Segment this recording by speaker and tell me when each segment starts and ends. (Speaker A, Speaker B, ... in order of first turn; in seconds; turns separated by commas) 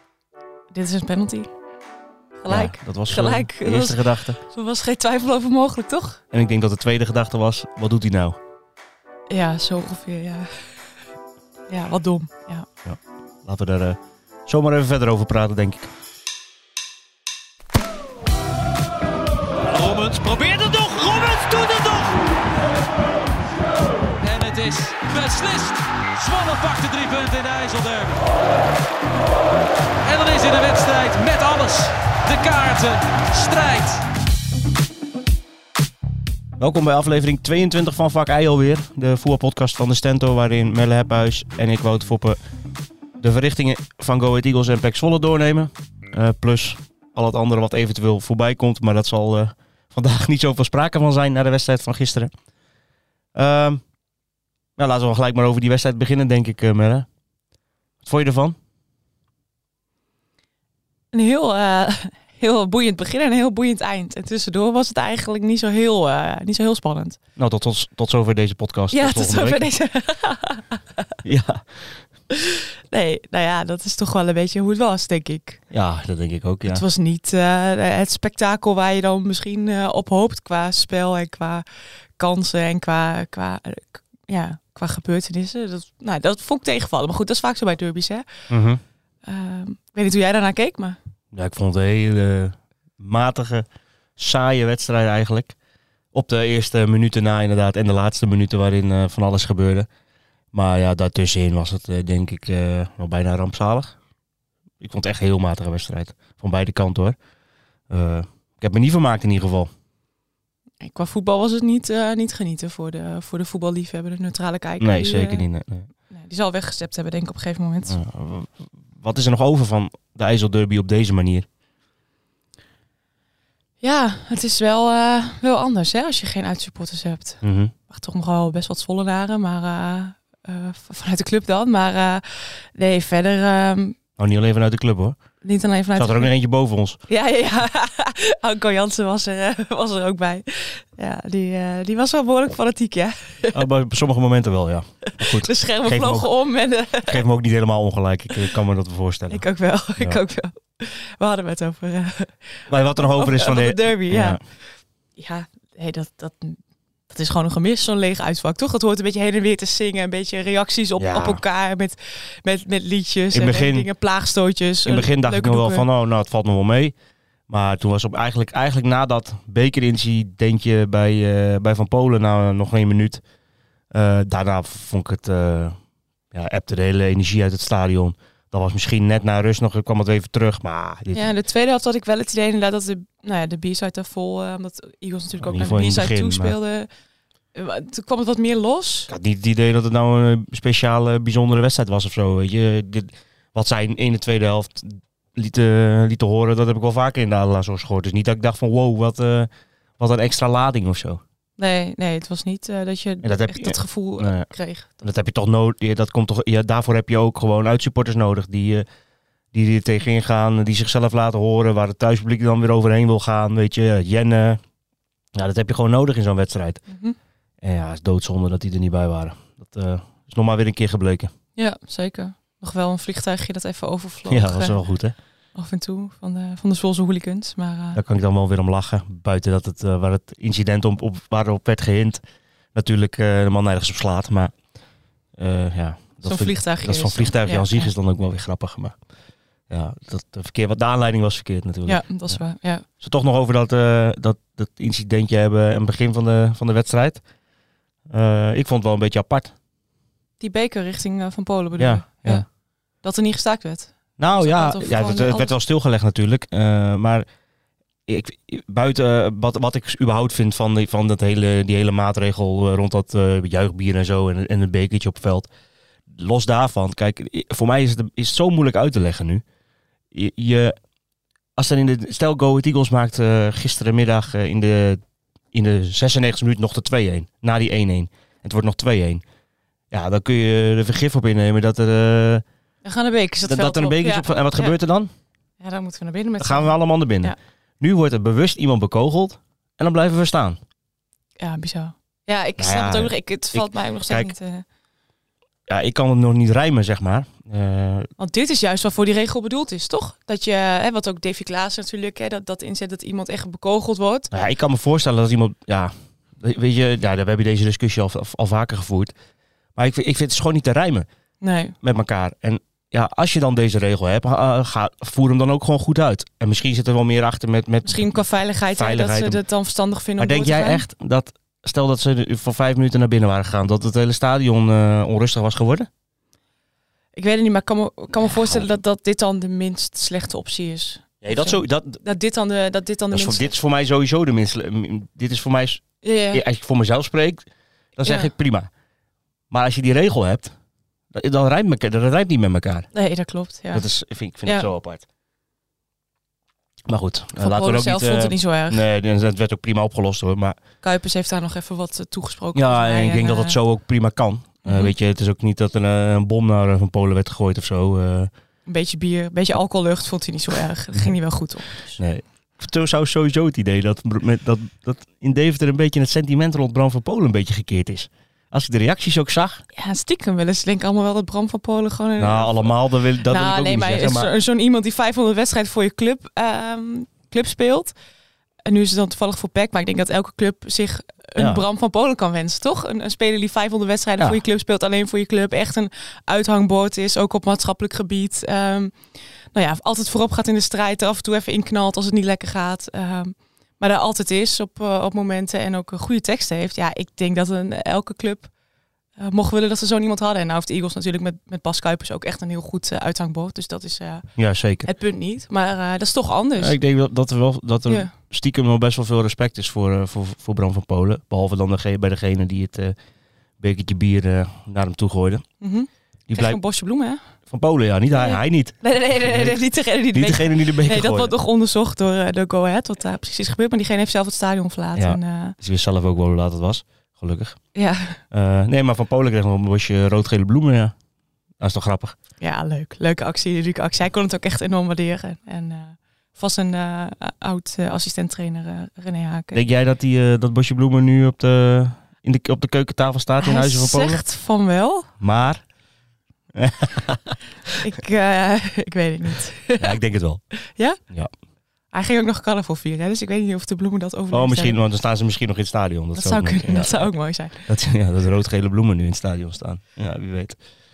Speaker A: 0.7-1.5, Speaker A: 2.4-6.2, Speaker B: 2.5-4.4, Speaker B: 6.3-8.4, Speaker A: 9.3-10.9, Speaker A: 11.7-12.7, Speaker B: 12.8-15.9, Speaker C: 19.6-22.2, Speaker C: 24.2-28.2, Speaker C: 30.0-34.0, Speaker B: 36.6-42.4, Speaker B: 43.2-52.3, Speaker B: 53.3-53.8, Speaker B: 54.8-57.1, Speaker B: 58.0-58.5, Speaker A: 61.1-67.2, Speaker B: 67.4-69.6, Speaker A: 68.9-71.2, Speaker B: 71.2-71.6, Speaker A: 72.3-75.6, Speaker B: 75.7-76.8, Speaker A: 76.6-81.7, Speaker A: 82.2-88.3, Speaker B: 88.5-88.8, Speaker A: 89.2-91.0, Speaker B: 91.3-93.7, Speaker B: 94.2-95.5, Speaker B: 96.1-99.9, Speaker B: 100.5-104.0, Speaker B: 104.8-107.2, Speaker B: 107.9-109.7, Speaker A: 110.8-115.4, Speaker B: 114.8-115.9, Speaker A: 116.1-118.0, Speaker B: 117.8-121.5, Speaker A: 123.8-134.0, Speaker B: 127.4-127.7, Speaker B: 134.2-135.2, Speaker A: 135.4-136.3, Speaker B: 135.9-137.0, Speaker A: 137.1-143.6, Speaker B: 143.5-146.3, Speaker A: 145.2-147.2, Speaker B: 147.0-149.4, Speaker A: 149.3-154.4, Speaker B: 152.7-154.4, Speaker A: 155.2-165.9, Speaker B: 161.0-161.4, Speaker B: 163.3-163.9, Speaker B: 164.8-166.9, Speaker B: 167.5-173.2, Speaker B: 173.9-175.8, Speaker B: 176.3-181.3, Speaker A: 181.1-186.9, Speaker B: 185.4-186.6, Speaker A: 187.5-189.1, Speaker B: 189.1-201.2, Speaker A: 201.6-205.0, Speaker B: 203.2-204.5, Speaker B: 205.0-208.8, Speaker B: 209.5-214.6, Speaker B: 215.3-216.8, Speaker A: 216.9-217.2, Speaker B: 217.6-221.3, Speaker A: 221.6-224.8, Speaker B: 224.3-225.1, Speaker A: 225.5-228.0, Speaker B: 227.9-232.2, Speaker B: 232.7-234.5, Speaker B: 235.4-238.9, Speaker A: 236.2-237.9, Speaker B: 239.7-242.4, Speaker A: 241.8-242.8, Speaker B: 243.0-247.2, Speaker B: 248.1-249.5, Speaker A: 250.4-252.4, Speaker B: 251.8-252.4, Speaker A: 253.0-255.5, Speaker B: 254.2-257.2, Speaker B: 258.1-265.5, Speaker B: 266.1-269.4, Speaker B: 270.1-270.8, Speaker B: 271.6-275.0, Speaker B: 275.5-279.2, Speaker B: 279.9-282.4, Speaker A: 282.8-284.7, Speaker B: 283.4-285.1, Speaker A: 285.6-287.3, Speaker B: 286.4-290.6, Speaker A: 291.4-294.6, Speaker B: 292.6-294.3, Speaker B: 295.7-298.1, Speaker A: 298.2-304.3, Speaker B: 304.3-309.1, Speaker B: 309.8-311.1, Speaker A: 311.4-311.8, Speaker B: 311.8-318.1, Speaker A: 317.8-320.8, Speaker B: 318.7-319.4, Speaker B: 320.2-325.9, Speaker A: 327.1-333.5, Speaker B: 331.2-332.0, Speaker B: 333.1-337.4, Speaker A: 336.0-336.4, Speaker B: 337.9-338.7, Speaker A: 338.0-338.3, Speaker B: 339.5-340.5, Speaker B: 341.1-342.9, Speaker A: 342.9-343.9, Speaker B: 343.7-345.0, Speaker B: 346.9-350.6, Speaker A: 347.4-348.8, Speaker A: 350.8-353.6, Speaker B: 352.5-358.3, Speaker A: 354.6-354.9, Speaker A: 358.6-362.0, Speaker B: 362.0-369.6, Speaker A: 369.7-377.9, Speaker B: 372.2-374.3, Speaker A: 378.6-388.9, Speaker B: 381.4-381.6, Speaker A: 389.5-398.5, Speaker A: 399.2-404.3, Speaker B: 404.4-404.9, Speaker A: 404.8-406.8, Speaker B: 406.6-412.9, Speaker A: 407.9-408.1, Speaker B: 413.6-415.4, Speaker A: 415.6-417.2, Speaker B: 416.3-416.6, Speaker B: 417.5-419.6, Speaker A: 418.1-425.6, Speaker B: 420.1-421.3, Speaker B: 424.9-427.6, Speaker A: 427.7-428.2, Speaker B: 428.3-430.9, Speaker B: 431.6-432.1, Speaker A: 432.4-439.6, Speaker B: 439.5-444.2, Speaker A: 443.4-445.1, Speaker B: 445.2-445.6, Speaker B: 446.5-447.7, Speaker A: 447.8-450.0, Speaker B: 449.8-450.4, Speaker A: 450.6-451.0, Speaker A: 451.9-454.8, Speaker B: 454.3-457.1, Speaker A: 456.1-457.7, Speaker B: 457.6-460.6